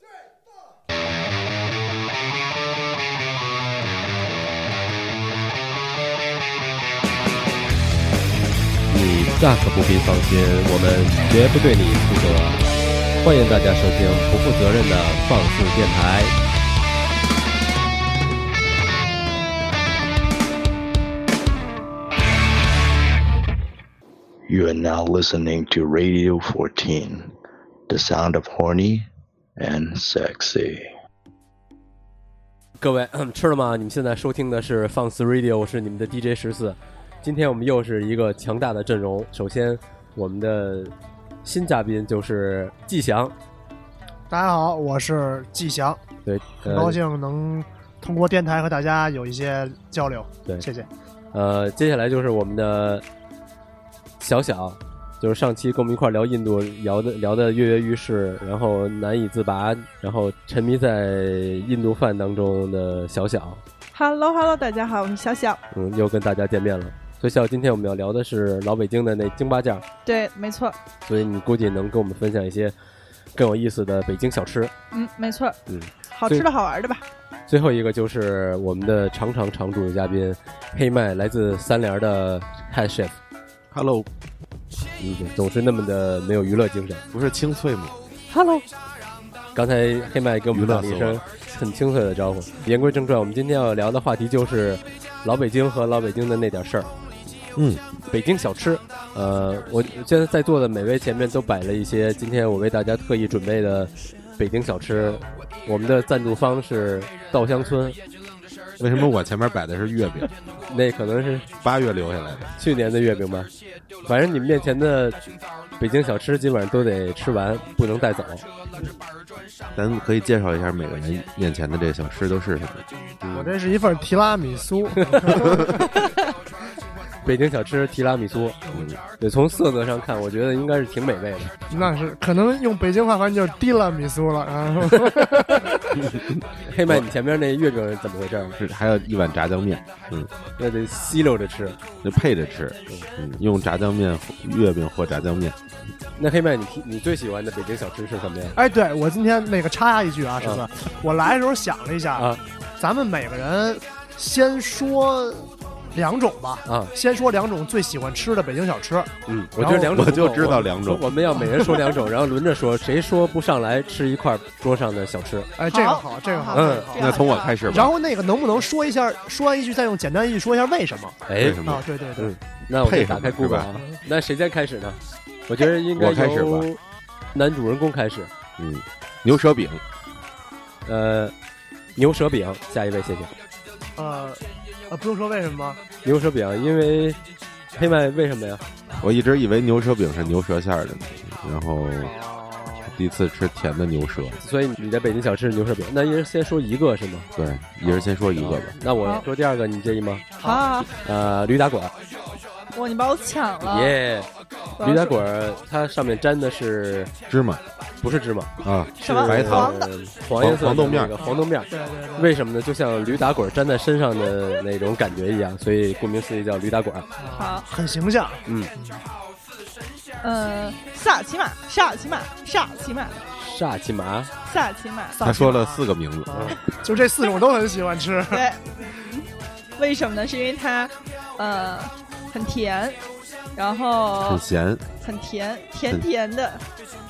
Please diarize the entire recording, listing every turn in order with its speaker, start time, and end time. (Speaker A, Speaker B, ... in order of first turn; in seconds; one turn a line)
Speaker A: 8.9-12.7
Speaker A: 13.2-16.3
Speaker B: 24.5-27.3
Speaker B: 27.9-30.9
Speaker A: 32.8-43.3
Speaker C: 44.3-46.0
Speaker A: 46.2-47.0
Speaker C: 46.6-50.9
Speaker A: 51.3-53.0
Speaker A: 54.2-63.6
Speaker D: 63.9-65.6
Speaker A: 65.7-69.8
Speaker D: 70.0-70.8
Speaker A: 71.0-72.8
Speaker A: 73.3-74.7
Speaker D: 74.9-75.6
Speaker A: 75.7-76.5
Speaker D: 76.1-77.0
Speaker A: 77.5-83.2
Speaker E: 83.7-84.1
Speaker A: 85.0-87.0
Speaker E: 87.1-88.0
Speaker A: 88.3-88.6
Speaker A: 89.5-96.9
Speaker E: 90.5-91.2
Speaker E: 97.5-97.8
Speaker A: 98.1-108.0
Speaker E: 108.8-110.3
Speaker A: 110.7-111.5
Speaker E: 111.6-112.5
Speaker A: 112.5-113.5
Speaker A: 114.0-115.2
Speaker A: 115.8-118.5
Speaker E: 119.7-122.8
Speaker A: 123.2-123.5
Speaker C: 123.3-125.7
Speaker A: 127.2-128.6
Speaker E: 128.7-129.0
Speaker A: 129.2-131.5
Speaker C: 131.7-135.9
Speaker A: 135.1-135.5
Speaker E: 136.1-137.1
Speaker A: 136.6-138.6
Speaker E: 138.6-140.3
Speaker A: 140.6-141.8
Speaker E: 142.0-145.6
Speaker A: 146.2-148.6
Speaker C: 148.6-159.9
Speaker A: 156.7-156.9
Speaker A: 159.2-165.5
Speaker E: 159.9-161.1
Speaker C: 165.6-172.3
Speaker D: 165.7-167.9
Speaker A: 166.5-166.9
Speaker E: 166.9-167.9
Speaker A: 171.2-171.6
Speaker E: 171.4-171.9
Speaker A: 172.2-176.8
Speaker E: 172.8-173.7
Speaker E: 175.9-176.7
Speaker A: 177.3-178.3
Speaker E: 178.6-179.8
Speaker A: 180.8-181.3
Speaker A: 181.9-183.3
Speaker C: 183.9-185.8
Speaker A: 186.0-187.2
Speaker A: 187.7-188.6
Speaker E: 189.0-192.1
Speaker C: 192.0-193.0
Speaker E: 192.9-194.4
Speaker A: 194.4-197.3
Speaker E: 197.3-198.8
Speaker A: 198.3-200.2
Speaker C: 200.4-200.7
Speaker D: 200.4-200.9
Speaker A: 201.0-201.9
Speaker D: 202.7-204.0
Speaker A: 203.6-207.1
Speaker D: 204.8-205.2
Speaker E: 207.3-207.6
Speaker A: 208.0-208.5
Speaker E: 208.6-209.7
Speaker D: 209.0-209.9
Speaker A: 209.1-217.1
Speaker E: 210.4-211.1
Speaker C: 211.2-212.3
Speaker C: 217.2-219.0
Speaker D: 217.3-217.7
Speaker A: 218.4-218.7
Speaker D: 220.2-223.2
Speaker A: 223.3-224.3
Speaker D: 224.4-225.2
Speaker C: 225.1-228.4
Speaker E: 225.2-226.5
Speaker D: 228.3-233.0
Speaker D: 233.5-234.4
Speaker E: 234.2-234.8
Speaker D: 235.0-236.6